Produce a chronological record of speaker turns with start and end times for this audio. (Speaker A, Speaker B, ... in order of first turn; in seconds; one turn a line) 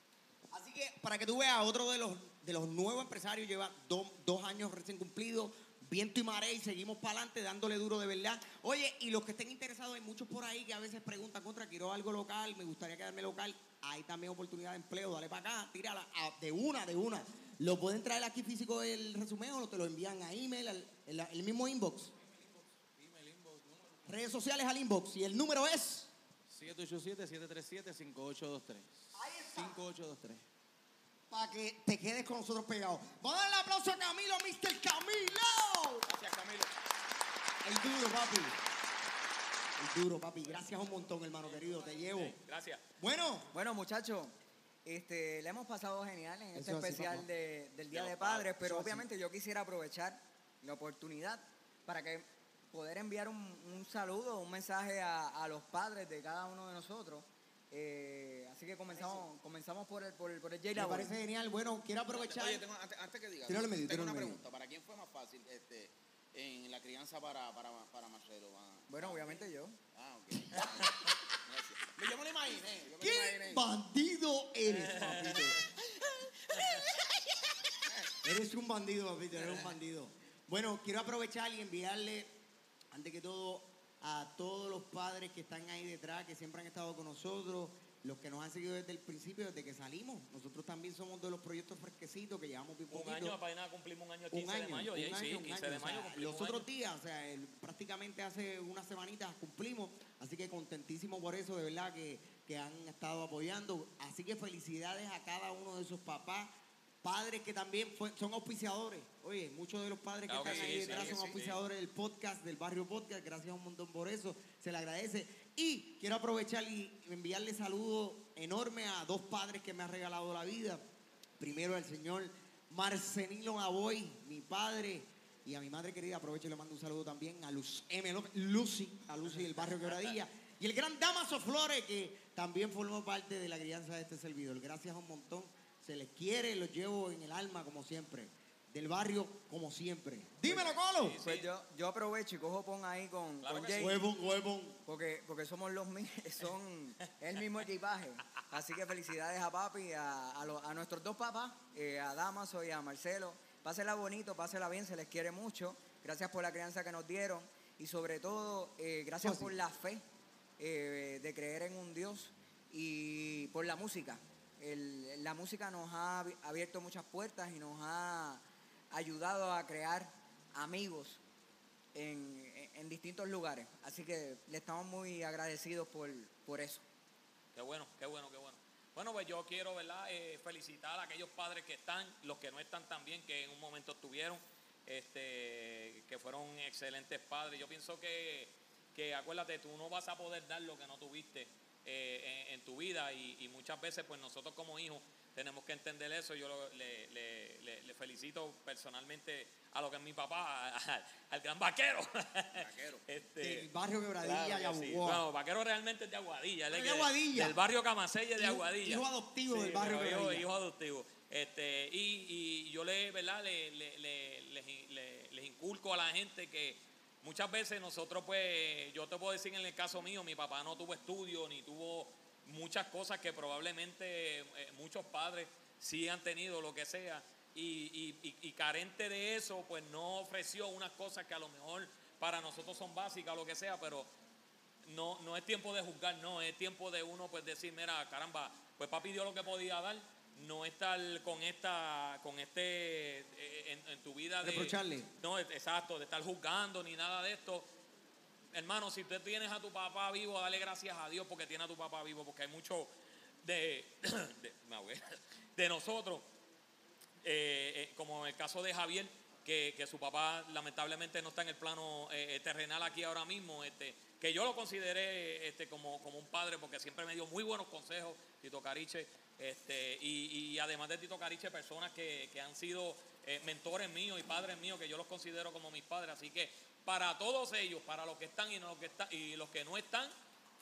Speaker A: 0.5-22.1
Speaker B: 22.2-24.1
Speaker A: 24.1-26.1
Speaker B: 26.5-30.4
Speaker A: 29.1-29.8
Speaker A: 31.3-36.1
Speaker C: 36.0-36.7
Speaker A: 37.6-38.6
Speaker A: 39.8-42.4
Speaker D: 41.8-42.8
Speaker A: 43.0-43.5
Speaker E: 43.5-44.3
Speaker E: 44.9-61.1
Speaker A: 46.5-47.2
Speaker D: 47.9-48.4
Speaker A: 48.6-49.0
Speaker C: 58.9-59.2
Speaker A: 60.7-62.6
Speaker C: 62.1-73.7
Speaker A: 63.5-64.4
Speaker E: 68.9-69.8
Speaker D: 70.5-71.1
Speaker A: 73.0-75.6
Speaker D: 74.7-75.6
Speaker D: 76.5-76.9
Speaker A: 78.2-82.3
Speaker C: 79.4-79.7
Speaker A: 82.9-93.4
Speaker D: 92.9-96.7
Speaker A: 94.3-106.5
Speaker A: 107.0-120.8
Speaker D: 110.3-111.6
Speaker C: 110.4-110.8
Speaker A: 121.4-141.2
Speaker C: 129.6-130.1
Speaker D: 140.5-141.5
Speaker E: 141.2-144.0
Speaker D: 143.4-144.0
Speaker A: 143.8-144.8
Speaker E: 144.8-160.0
Speaker A: 159.2-159.5
Speaker E: 160.6-171.2
Speaker E: 171.9-176.8
Speaker D: 177.5-203.7
Speaker C: 202.6-203.0
Speaker A: 203.4-205.2
Speaker D: 204.2-234.1
Speaker A: 206.7-207.6
Speaker A: 208.4-210.5
Speaker D: 234.8-247.7
Speaker A: 244.4-245.1
Speaker D: 248.5-252.9
Speaker D: 253.4-256.2
Speaker D: 257.2-280.1